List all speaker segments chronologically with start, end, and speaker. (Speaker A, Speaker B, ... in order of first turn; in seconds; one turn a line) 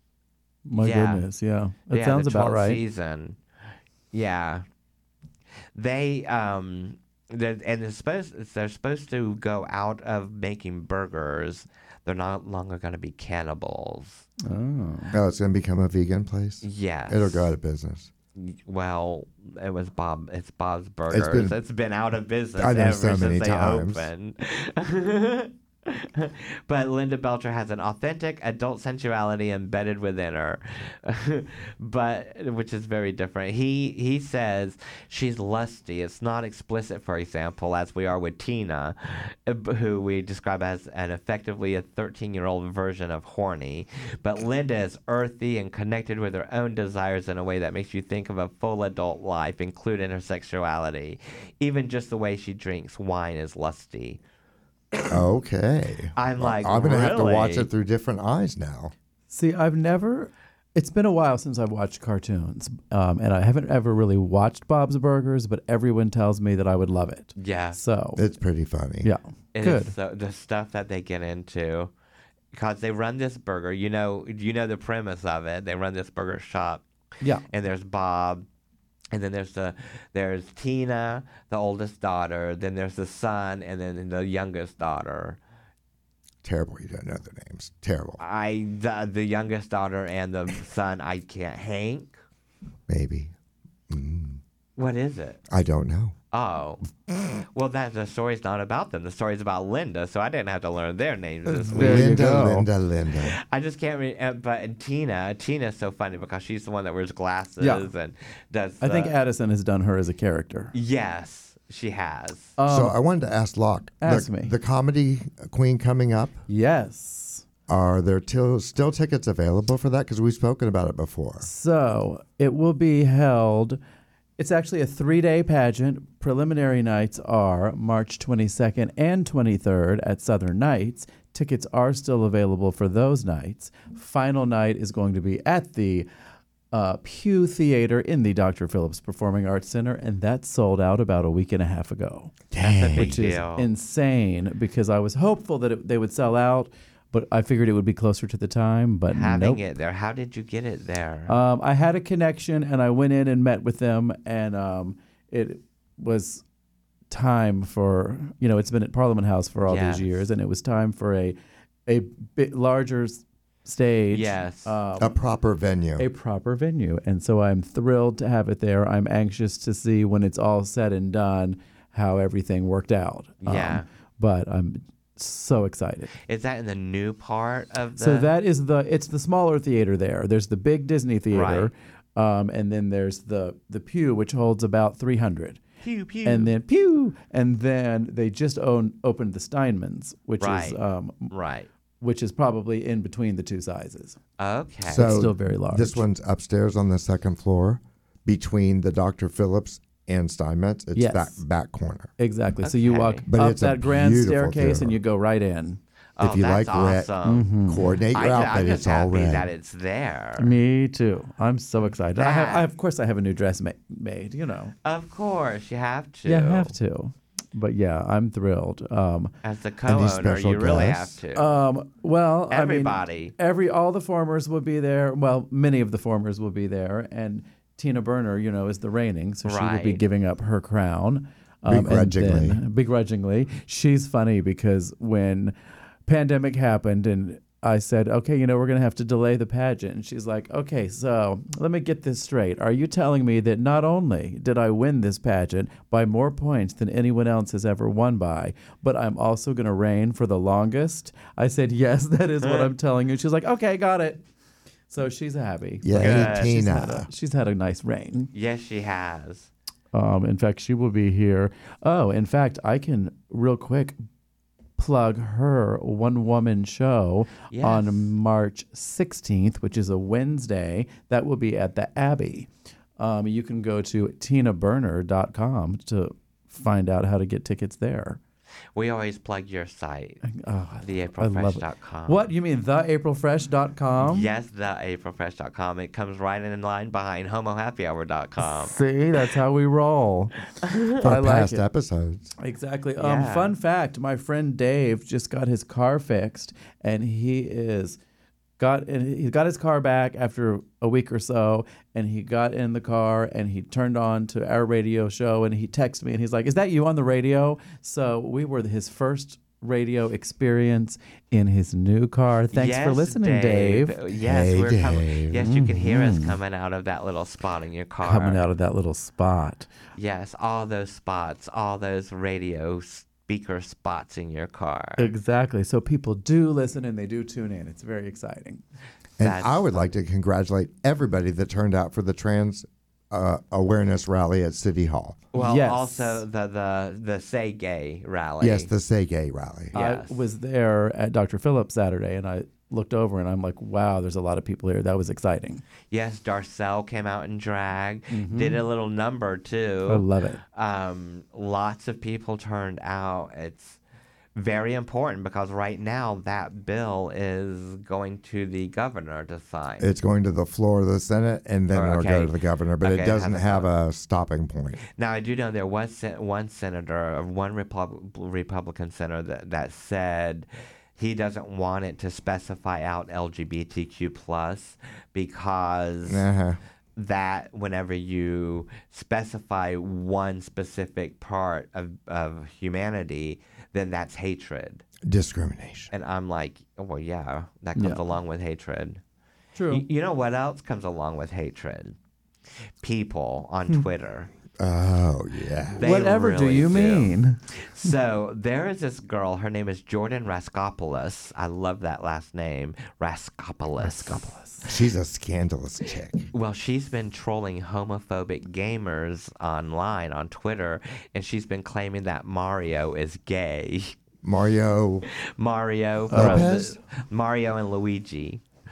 Speaker A: 0.7-2.8
Speaker B: 0.8-1.2
Speaker B: 1.9-3.4
Speaker B: 4.1-4.6
Speaker B: 5.7-14.2
Speaker A: 14.4-15.2
Speaker C: 15.1-18.1
Speaker B: 16.6-17.5
Speaker B: 18.4-54.2
Speaker C: 21.1-21.5
Speaker C: 22.6-24.1
Speaker C: 55.1-58.9
Speaker B: 56.1-57.7
Speaker A: 59.3-68.2
Speaker B: 67.3-67.8
Speaker C: 68.2-69.1
Speaker A: 69.0-69.9
Speaker B: 69.5-71.9
Speaker B: 72.5-76.8
Speaker B: 77.5-78.4
Speaker B: 79.1-85.4
Speaker C: 86.4-88.2
Speaker B: 88.2-92.2
Speaker C: 92.9-93.3
Speaker C: 93.9-94.4
Speaker B: 94.8-95.4
Speaker C: 95.5-96.1
Speaker B: 96.3-96.8
Speaker B: 97.5-102.2
Speaker A: 101.5-102.7
Speaker C: 101.7-103.4
Speaker B: 103.2-109.1
Speaker A: 107.6-107.9
Speaker A: 108.8-110.7
Speaker B: 110.7-112.5
Speaker A: 112.6-113.0
Speaker C: 112.7-116.4
Speaker A: 114.0-114.5
Speaker A: 116.5-117.5
Speaker C: 117.7-121.5
Speaker A: 121.4-123.8
Speaker A: 124.4-136.1
Speaker A: 136.7-142.3
Speaker C: 142.5-143.2
Speaker B: 142.6-143.7
Speaker A: 142.9-149.6
Speaker B: 149.1-151.3
Speaker A: 151.3-156.4
Speaker A: 157.1-165.2
Speaker B: 159.7-160.2
Speaker B: 164.1-164.7
Speaker C: 165.0-166.1
Speaker A: 166.0-176.1
Speaker B: 173.4-173.8
Speaker B: 176.2-178.3
Speaker A: 178.0-185.6
Speaker B: 181.3-181.7
Speaker B: 185.8-186.5
Speaker A: 186.2-191.3
Speaker B: 190.4-191.7
Speaker A: 192.0-194.2
Speaker B: 194.4-195.3
Speaker C: 194.8-202.1
Speaker A: 194.9-196.0
Speaker A: 200.9-201.4
Speaker A: 202.2-205.8
Speaker B: 202.6-203.2
Speaker C: 203.3-205.0
Speaker B: 206.2-207.5
Speaker C: 206.2-207.1
Speaker A: 207.2-208.0
Speaker C: 207.7-209.5
Speaker B: 208.1-210.5
Speaker A: 210.4-214.7
Speaker B: 212.2-212.7
Speaker B: 214.8-216.7
Speaker A: 216.2-219.3
Speaker B: 219.4-221.6
Speaker C: 219.8-221.2
Speaker A: 221.3-235.5
Speaker B: 222.5-223.3
Speaker B: 229.4-230.0
Speaker C: 231.7-232.6
Speaker A: 236.1-254.2
Speaker B: 252.4-252.7
Speaker A: 254.9-258.3
Speaker C: 255.8-257.1
Speaker B: 256.0-256.5
Speaker B: 258.3-259.5
Speaker A: 259.9-264.0
Speaker A: 264.8-278.2
Speaker B: 267.5-268.1
Speaker B: 278.7-280.2
Speaker A: 280.2-284.3
Speaker B: 280.8-282.3
Speaker B: 284.0-288.8
Speaker A: 288.4-291.6
Speaker B: 290.7-291.0
Speaker C: 291.0-292.3
Speaker A: 292.4-298.0
Speaker B: 293.0-293.5
Speaker A: 298.6-313.9
Speaker B: 312.5-318.4
Speaker C: 314.2-315.5
Speaker A: 315.4-316.4
Speaker A: 318.0-319.7
Speaker B: 319.9-325.1
Speaker A: 325.0-328.6
Speaker C: 329.2-335.2
Speaker B: 329.2-329.9
Speaker B: 335.3-338.7
Speaker A: 335.3-336.2
Speaker C: 338.4-339.7
Speaker B: 339.7-340.2
Speaker A: 339.7-345.6
Speaker B: 345.9-353.8
Speaker A: 348.1-348.6
Speaker A: 349.9-350.4
Speaker B: 354.3-359.9
Speaker C: 359.8-364.8
Speaker B: 361.7-363.7
Speaker B: 364.9-376.2
Speaker C: 376.1-376.6
Speaker B: 376.9-384.8
Speaker C: 385.0-385.9
Speaker B: 385.9-389.0
Speaker A: 387.8-388.0
Speaker A: 389.6-389.8
Speaker B: 389.7-391.9
Speaker B: 392.8-394.3
Speaker C: 394.6-395.8
Speaker B: 395.8-404.3
Speaker A: 395.8-397.9
Speaker A: 403.8-404.7
Speaker C: 404.6-406.3
Speaker B: 406.3-413.9
Speaker C: 414.2-415.1
Speaker B: 415.1-418.4
Speaker C: 416.1-416.8
Speaker A: 416.1-416.5